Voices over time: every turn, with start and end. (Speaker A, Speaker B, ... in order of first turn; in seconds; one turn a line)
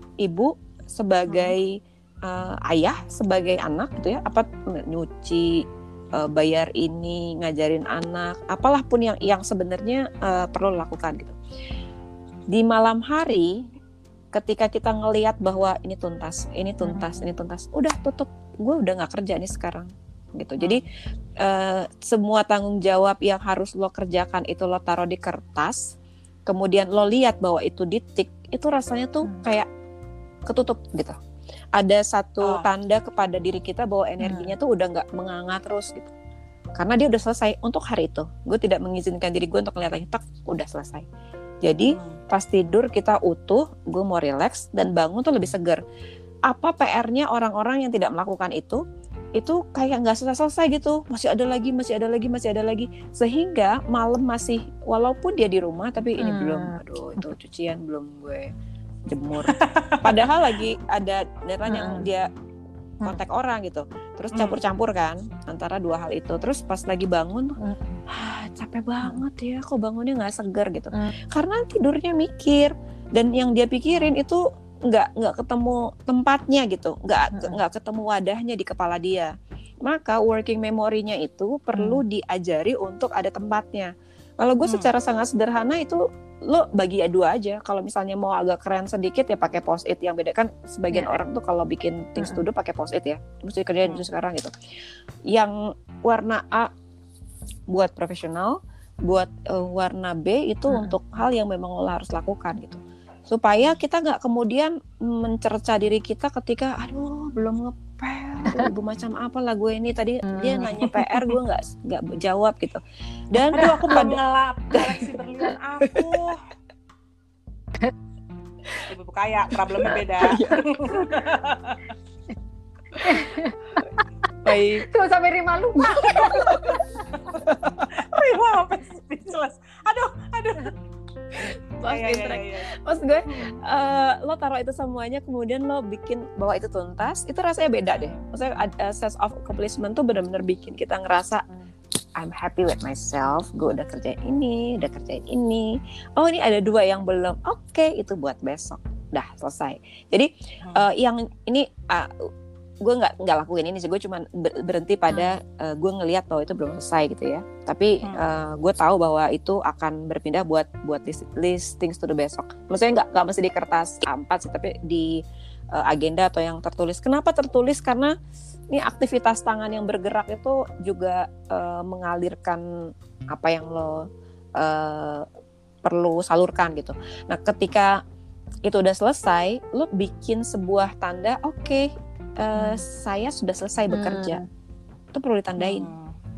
Speaker A: 0.2-5.6
Speaker A: 6.1-11.3
Speaker A: 12.5-13.7
Speaker A: 14.3-20.9
Speaker B: 16.8-17.2
Speaker A: 21.4-25.9
Speaker A: 26.5-29.7
Speaker A: 30.5-31.2
Speaker A: 31.7-36.1
Speaker C: 32.4-32.7
Speaker B: 34.2-34.5
Speaker A: 36.8-41.0
Speaker A: 41.6-45.8
Speaker C: 41.8-42.2
Speaker A: 46.5-48.8
Speaker A: 49.4-58.5
Speaker B: 56.2-57.2
Speaker A: 59.0-62.3
Speaker C: 59.5-60.4
Speaker B: 61.6-62.1
Speaker A: 63.0-79.3
Speaker B: 67.6-67.9
Speaker B: 77.3-77.6
Speaker A: 79.8-94.5
Speaker B: 81.7-82.0
Speaker C: 84.6-84.9
Speaker A: 95.3-96.7
Speaker A: 97.7-112.8
Speaker B: 100.7-101.0
Speaker B: 110.2-111.2
Speaker A: 113.3-114.2
Speaker C: 113.5-116.4
Speaker A: 115.8-116.1
Speaker C: 118.9-121.8
Speaker A: 120.2-121.1
Speaker B: 123.0-123.5
Speaker A: 124.4-124.8
Speaker B: 124.5-127.0
Speaker A: 125.8-126.8
Speaker C: 126.1-130.7
Speaker A: 127.4-128.3
Speaker A: 131.3-141.4
Speaker C: 131.8-132.7
Speaker C: 137.9-138.2
Speaker A: 142.2-152.3
Speaker A: 152.8-165.2
Speaker B: 155.1-155.3
Speaker A: 165.7-168.1
Speaker A: 168.7-175.2
Speaker A: 175.8-178.0
Speaker A: 178.6-184.4
Speaker B: 183.9-184.4
Speaker A: 185.1-185.9
Speaker C: 185.6-186.1